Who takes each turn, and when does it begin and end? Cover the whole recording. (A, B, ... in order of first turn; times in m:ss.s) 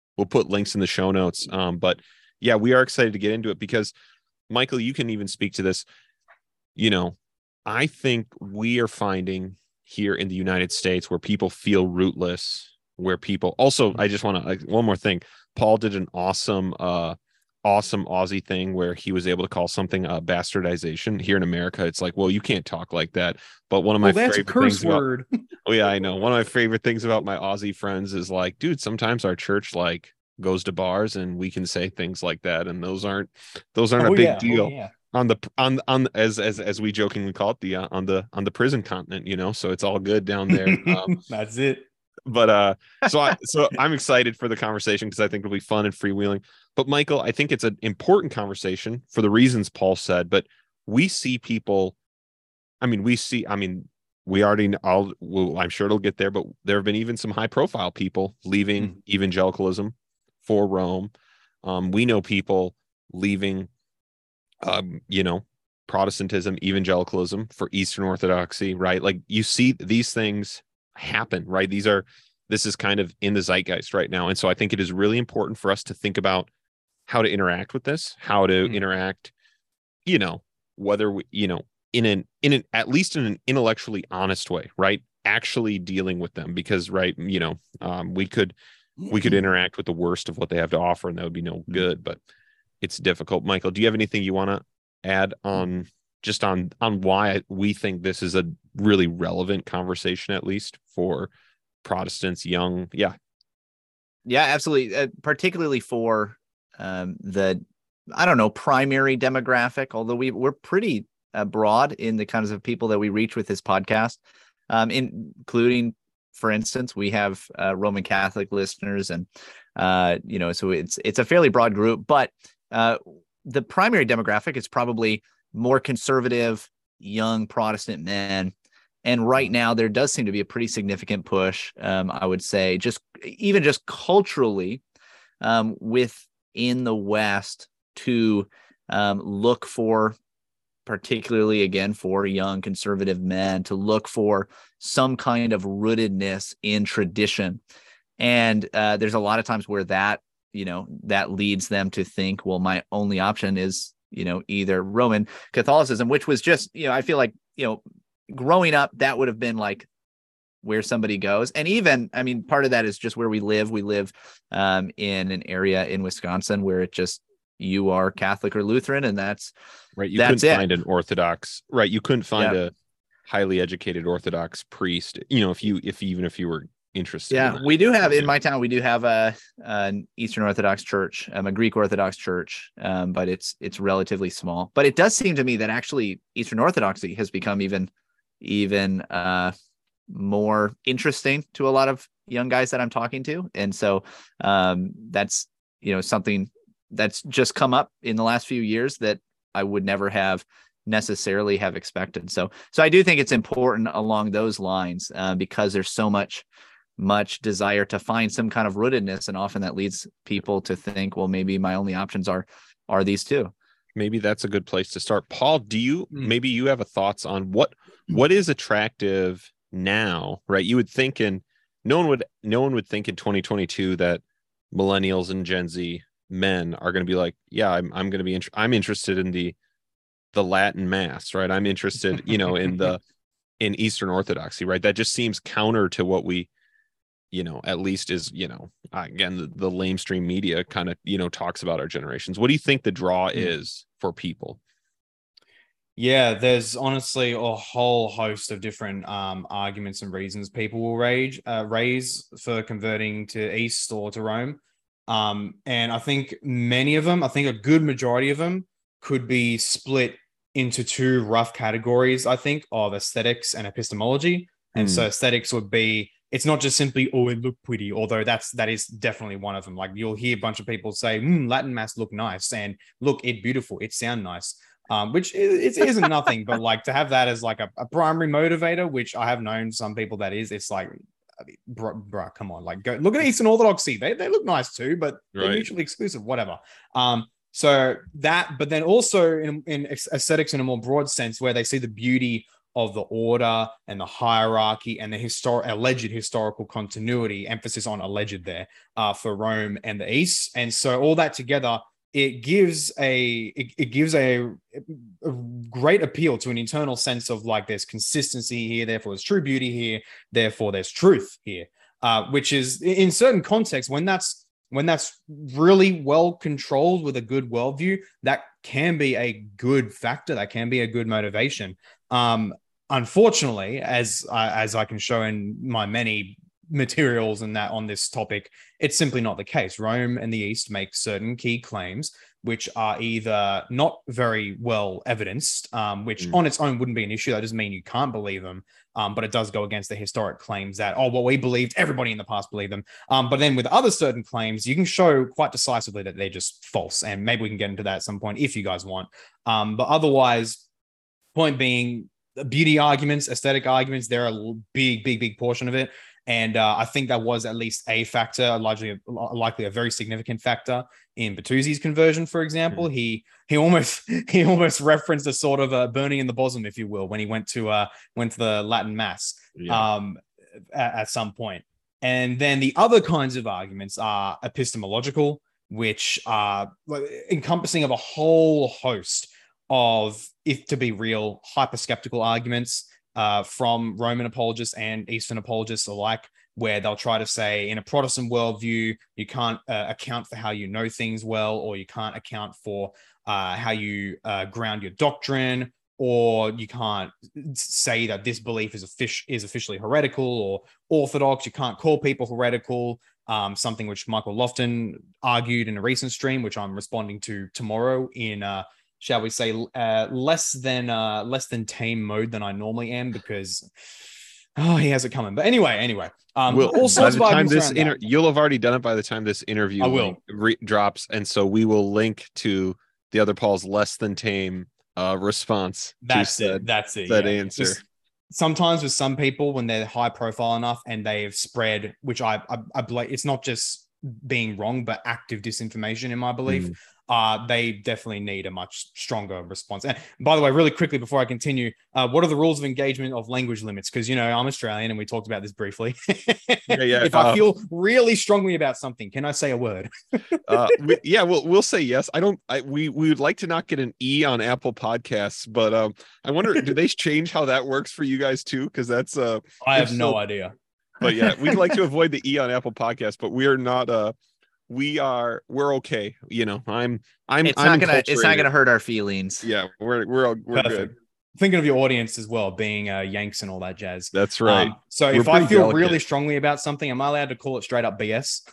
0:00.2-0:03.9 A
0:04.5-0:05.9 A
0:06.8-0:25.0 A
0:24.0-0:25.3 B
0:25.6-0:41.2 A
0:34.0-0:34.9 B
0:40.5-0:41.8 B
0:42.3-0:52.0 A
0:52.8-1:01.1 A
1:01.6-1:03.7 A
1:04.6-1:16.5 A
1:17.1-1:19.3 A
1:20.1-1:28.5 A
1:29.1-1:32.2 A
1:32.8-1:41.3 A
1:41.8-1:43.2 A
1:44.3-2:14.8 C
2:15.4-2:20.2 C
2:20.9-2:27.6 C
2:28.2-2:39.9 C
2:40.6-2:49.5 C
2:50.0-2:52.7 A
2:50.2-2:50.7 C
2:53.3-2:58.3 A
2:57.3-3:09.5 C
3:10.1-3:26.4 C
3:27.0-3:33.5 C
3:34.0-3:49.6 A
3:50.3-3:53.0 A
3:53.6-3:56.5 A
3:57.3-4:04.6 A
4:06.0-4:40.9 B
4:24.8-4:25.1 A
4:41.7-5:50.6 B
4:45.4-4:45.7 A
5:51.4-6:10.2 B
6:09.6-6:09.9 A
6:10.7-6:53.7 B
6:54.6-6:58.0 B
6:56.5-7:07.8 A
6:59.8-7:00.2 B
7:06.0-7:30.8 B
7:16.5-7:16.7 A
7:26.7-7:27.4 A
7:30.5-7:40.2 A
7:39.6-7:40.6 B
7:41.0-7:44.1 A
7:44.7-7:48.5 A
7:47.4-7:49.4 C
7:49.4-7:50.9 A
7:50.5-7:58.4 B
7:54.1-7:56.0 A